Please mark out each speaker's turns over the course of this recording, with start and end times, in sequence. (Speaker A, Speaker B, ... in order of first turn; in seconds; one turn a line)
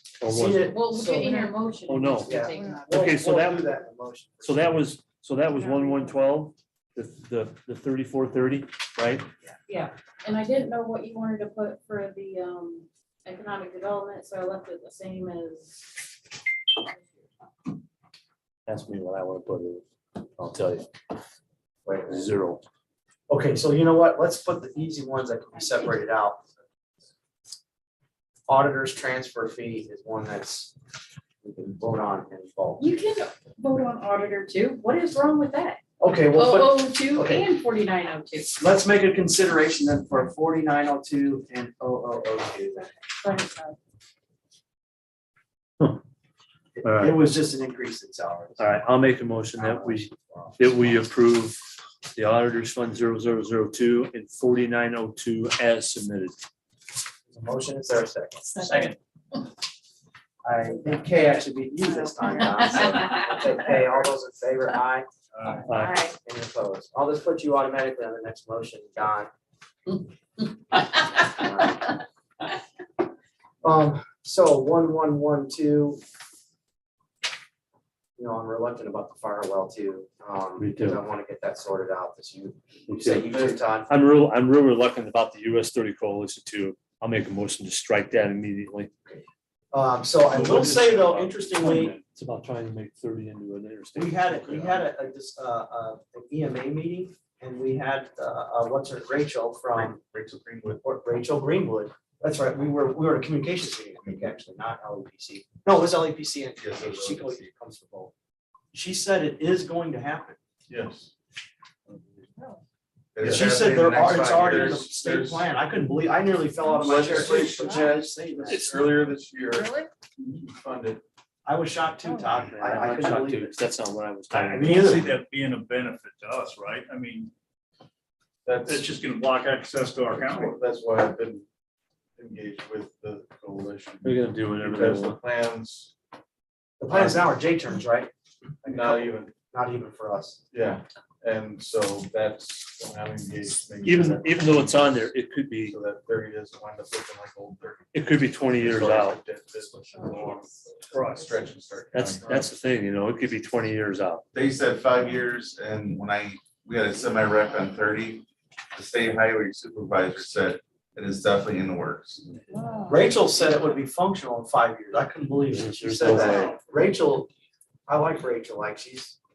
Speaker A: 0.2-0.7
Speaker B: 0.3-1.5
Speaker C: 0.7-2.9
Speaker A: 1.9-3.7
Speaker B: 2.2-4.8
Speaker A: 4.4-9.3
Speaker C: 9.7-16.0
Speaker C: 16.8-17.1
Speaker A: 18.7-20.9
Speaker B: 21.9-22.2
Speaker A: 22.1-22.6
Speaker B: 23.3-26.4
Speaker B: 28.5-30.7
Speaker B: 31.4-32.9
Speaker C: 32.8-35.8
Speaker B: 36.0-37.5
Speaker C: 36.3-38.5
Speaker B: 38.5-43.0
Speaker C: 43.2-43.8
Speaker B: 46.8-48.7
Speaker A: 46.8-47.2
Speaker A: 48.6-51.6
Speaker B: 49.6-51.0
Speaker A: 52.1-56.4
Speaker B: 57.3-58.7
Speaker C: 58.5-58.8
Speaker B: 60.4-65.1
Speaker A: 65.6-66.0
Speaker C: 65.7-66.1
Speaker B: 66.2-69.3
Speaker B: 70.8-72.0
Speaker B: 73.6-76.0
Speaker B: 78.2-83.9
Speaker A: 80.6-81.0
Speaker A: 82.9-88.9
Speaker B: 89.0-92.0
Speaker A: 90.3-94.9
Speaker D: 90.3-91.3
Speaker B: 94.0-100.0
Speaker D: 99.7-100.8
Speaker B: 100.8-108.1
Speaker E: 106.6-107.5
Speaker B: 108.7-110.4
Speaker D: 110.7-111.1
Speaker E: 113.1-114.8
Speaker B: 113.2-118.6
Speaker D: 114.0-115.5
Speaker D: 116.7-121.0
Speaker A: 118.5-118.8
Speaker B: 121.5-123.5
Speaker A: 122.3-124.8
Speaker B: 124.3-125.2
Speaker F: 124.6-127.3
Speaker D: 128.4-128.9
Speaker F: 128.7-130.4
Speaker D: 130.2-131.4
Speaker D: 132.2-135.9
Speaker A: 134.0-135.2
Speaker B: 136.8-138.1
Speaker D: 136.9-137.2
Speaker B: 138.6-140.4
Speaker D: 138.6-139.3
Speaker D: 140.5-152.5
Speaker A: 143.8-145.8
Speaker A: 147.9-149.2
Speaker F: 150.9-151.2
Speaker A: 151.9-154.2
Speaker E: 154.3-162.2
Speaker B: 162.8-167.3
Speaker A: 165.5-166.5
Speaker B: 167.9-169.2